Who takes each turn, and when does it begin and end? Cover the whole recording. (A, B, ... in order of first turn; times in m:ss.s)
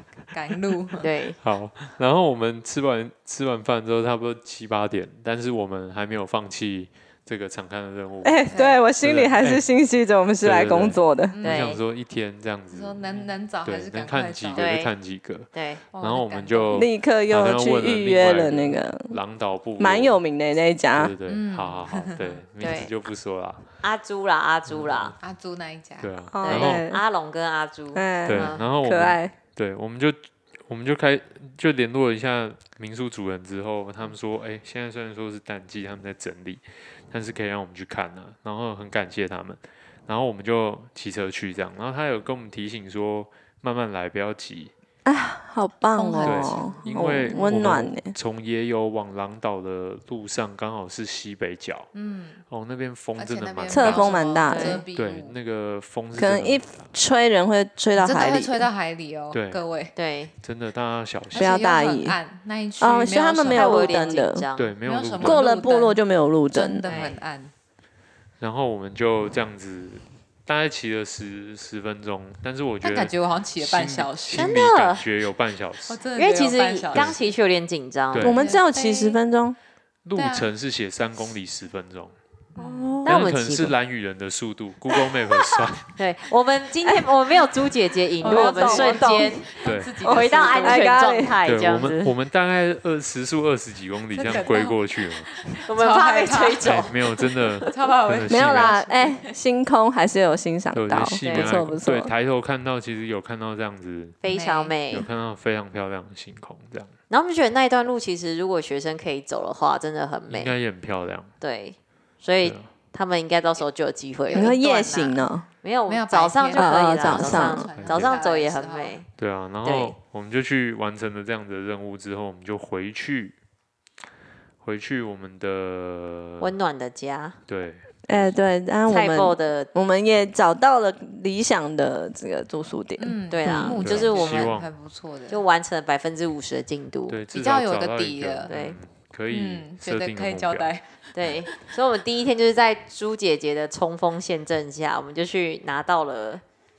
0:00.3-0:01.1 A
0:01.0-0:01.4 B
0:01.4-0:08.4 C
0:08.2-0:11.4 D
0:08.5-0:08.8 A
0:09.0-0:09.6 C
0:10.4-0:20.2 C
0:11.3-0:11.8 A
0:11.4-0:11.8 B
0:12.7-0:14.8 A
0:14.5-0:14.9 B
0:15.5-0:15.8 B
0:15.9-0:16.9 A
0:16.7-0:19.2 D
0:19.8-0:21.1 D
0:20.9-0:23.6 C
0:21.2-0:22.4 A
0:22.6-0:22.9 B
0:23.8-0:25.1 B
0:24.7-0:25.1 C
0:25.2-0:26.1 A
0:26.0-0:26.8 C
0:26.3-0:27.0 D
0:26.4-0:28.6 B
0:27.9-0:29.3 D
0:28.2-0:44.7 C
0:45.0-0:48.1 D
0:45.9-0:46.8 A
0:46.2-0:51.9 C
0:51.9-0:52.4 A
0:52.5-0:54.2 C
0:53.2-0:55.4 A
0:53.7-0:54.8 D
0:54.4-0:54.8 B
0:54.9-0:56.9 C
0:56.2-0:58.7 D
0:57.9-0:59.9 A
0:59.3-0:59.6 C
1:00.0-1:00.3 B
1:00.4-1:01.6 C
1:01.3-1:04.2 A
1:01.3-1:02.2 D
1:02.8-1:04.4 D
1:03.5-1:04.7 B
1:04.6-1:05.4 C
1:04.8-1:06.0 A
1:05.2-1:06.9 D
1:06.5-1:07.5 A
1:06.8-1:07.2 B
1:08.4-1:16.0 C
1:12.8-1:14.6 A
1:14.3-1:15.0 B
1:15.9-1:17.2 A
1:16.2-1:18.3 B
1:16.9-1:17.2 C
1:18.1-1:18.4 C
1:18.2-1:19.6 D
1:18.3-1:19.2 A
1:20.0-1:22.1 C
1:20.2-1:20.5 A
1:22.5-1:23.0 A
1:22.6-1:23.0 D
1:23.0-1:23.7 B
1:23.0-1:25.9 C
1:24.9-1:25.2 D
1:26.0-1:29.5 B
1:28.2-1:31.0 A
1:28.2-1:29.4 D
1:29.6-1:30.0 C
1:30.0-1:31.4 D
1:30.0-1:32.1 B
1:31.4-1:35.3 C
1:34.1-1:36.9 A
1:35.6-1:37.7 B
1:36.6-1:38.7 C
1:37.7-1:39.3 A
1:38.3-1:42.1 D
1:40.7-1:44.2 C
1:41.2-1:41.6 B
1:44.2-1:45.0 B
1:44.2-1:44.7 A
1:44.9-1:46.9 C
1:47.1-1:50.5 B
1:50.3-1:51.3 C
1:51.4-1:54.5 B
1:52.4-1:52.7 C
1:54.3-1:55.3 A
1:54.3-1:55.5 D
1:55.6-1:59.1 B
1:55.9-1:59.0 A
1:56.6-1:57.7 D
1:57.8-1:58.2 C
1:59.2-2:03.4 C
1:59.6-2:00.0 B
2:04.6-2:06.5 C
2:06.4-2:07.4 B
2:07.5-2:08.4 C
2:08.0-2:13.8 D
2:08.9-2:09.7 B
2:13.0-2:15.4 A
2:13.3-2:14.5 B
2:13.8-2:14.7 C
2:15.3-2:17.2 B
2:17.1-2:20.7 C
2:17.3-2:18.5 A
2:18.5-2:18.8 B
2:19.3-2:21.2 A
2:21.1-2:26.4 B